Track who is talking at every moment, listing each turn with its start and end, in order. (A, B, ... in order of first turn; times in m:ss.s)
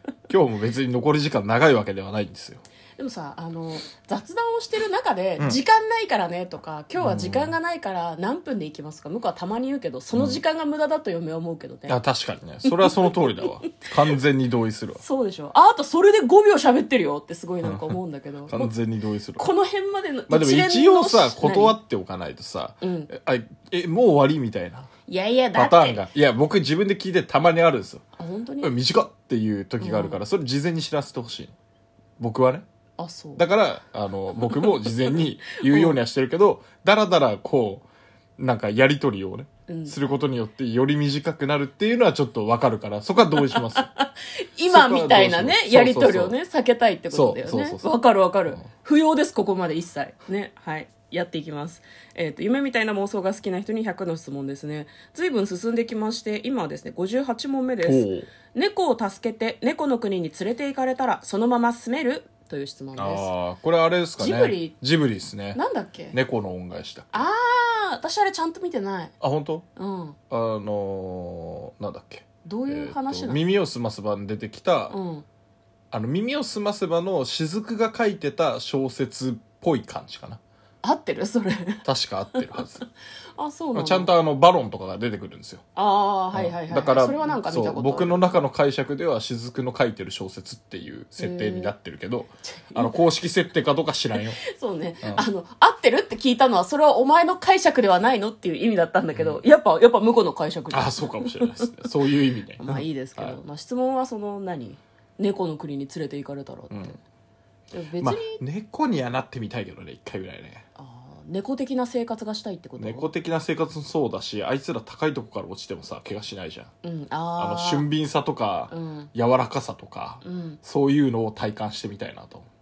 0:00.3-0:02.6 A
0:03.0-0:12.0 B
0:07.0-0:07.6 A
0:10.1-0:10.4 A
0:11.9-0:15.0 A
0:12.7-0:13.5 B
0:15.0-0:18.7 B
0:17.6-0:19.5 A
0:19.4-0:21.8 B
0:20.3-0:24.9 A
0:22.8-0:23.1 B
0:25.1-0:26.0 B
0:25.5-0:28.0 A
0:28.2-0:28.7 B
0:28.6-0:31.6 A
0:29.8-0:30.2 B
0:32.2-0:32.6 A
0:33.0-0:33.5 B
0:33.4-0:37.9 A
0:34.5-0:36.0 B
0:38.4-0:43.9 A
0:39.7-0:40.0 B
0:43.4-1:03.3 B
0:44.7-0:46.4 A
0:47.1-0:47.9 A
0:57.8-0:58.3 A
1:03.0-1:05.6 A
1:04.2-1:04.7 B
1:05.6-1:06.2 B
1:06.1-1:07.2 A
1:07.1-1:09.1 B
1:09.2-1:09.6 A
1:09.8-1:10.2 B
1:10.3-1:15.0 A
1:12.4-1:13.5 B
1:14.9-1:15.2 B
1:15.9-1:20.4 A
1:20.8-1:21.8 B
1:21.8-1:22.9 A
1:22.4-1:22.6 B
1:23.4-1:24.1 B
1:23.7-1:25.6 A
1:25.8-1:28.3 B
1:26.3-1:34.4 A
1:31.2-1:31.7 B
1:32.4-1:33.0 B
1:34.5-1:41.9 B
1:39.1-1:39.4 A
1:40.7-1:43.4 A
1:42.6-1:47.0 B
1:46.7-1:47.0 A
1:47.7-1:48.4 B
1:48.0-1:50.6 A
1:50.8-1:53.1 B
1:52.8-1:56.7 A
1:56.8-1:57.9 B
1:57.4-2:02.5 A
1:58.7-1:59.1 B
2:00.2-2:00.6 B